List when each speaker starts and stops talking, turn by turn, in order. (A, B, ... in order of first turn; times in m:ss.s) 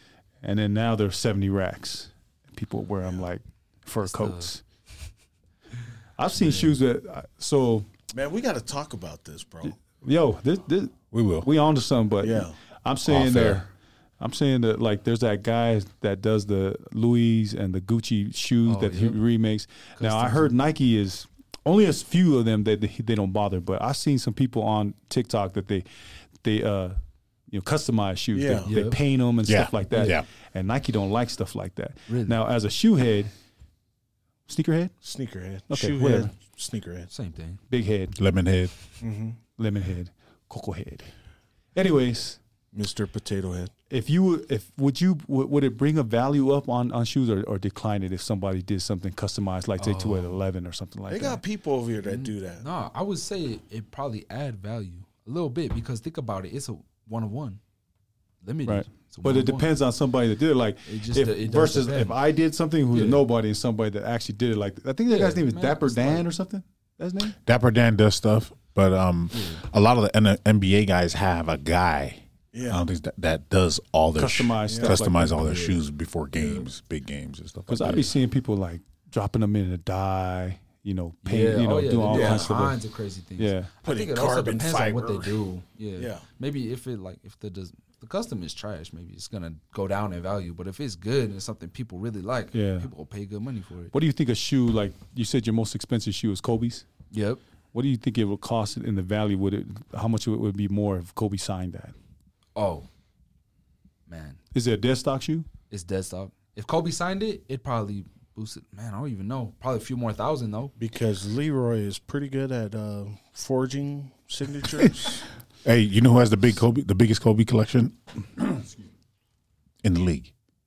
0:00.4-0:04.6 A
0:04.0-0:04.5 B
0:06.2-0:07.9 A
0:06.4-0:06.7 B
0:08.1-0:09.8 C
0:09.7-0:13.7 A
0:11.1-0:11.5 D
0:12.2-0:12.6 C
0:13.0-0:13.6 D
0:14.2-0:25.8 A
0:18.7-0:19.2 B
0:20.0-0:20.6 B
0:26.4-0:27.0 A
0:27.5-0:33.3 A
0:28.3-0:28.7 C
0:28.7-0:29.0 B
0:29.5-0:30.3 D
0:32.1-0:32.4 B
0:34.5-0:35.0 A
0:35.0-0:37.1 C
0:35.7-0:36.3 A
0:37.1-0:37.6 B
0:37.7-0:38.2 A
0:38.2-0:38.7 D
0:39.0-0:39.4 C
0:39.6-0:41.1 A
0:41.8-0:42.4 A
0:42.7-0:43.7 C
0:43.9-0:51.4 A
0:49.8-0:50.4 B
0:51.1-0:52.7 C
0:52.0-0:57.6 B
0:58.4-0:59.7 B
0:58.7-1:07.4 A
1:00.9-1:02.2 B
1:02.9-1:03.2 B
1:05.1-1:06.3 B
1:07.4-1:18.1 D
1:09.3-1:09.6 B
1:12.5-1:12.8 C
1:14.2-1:15.7 A
1:14.7-1:15.0 C
1:15.4-1:15.7 B
1:16.3-1:16.7 B
1:17.7-1:22.8 A
1:21.2-1:33.9 B
1:22.1-1:22.5 C
1:23.4-1:23.7 A
1:23.8-1:25.3 C
1:26.0-1:26.2 C
1:32.5-1:32.9 A
1:33.9-1:36.8 A
1:37.1-1:37.4 B
1:37.7-1:41.9 A
1:42.6-1:42.9 B
1:44.1-1:44.4 B
1:44.5-1:45.5 A
1:45.7-1:50.7 B
1:50.8-1:55.3 C
1:55.6-1:58.6 D
1:59.8-2:00.3 D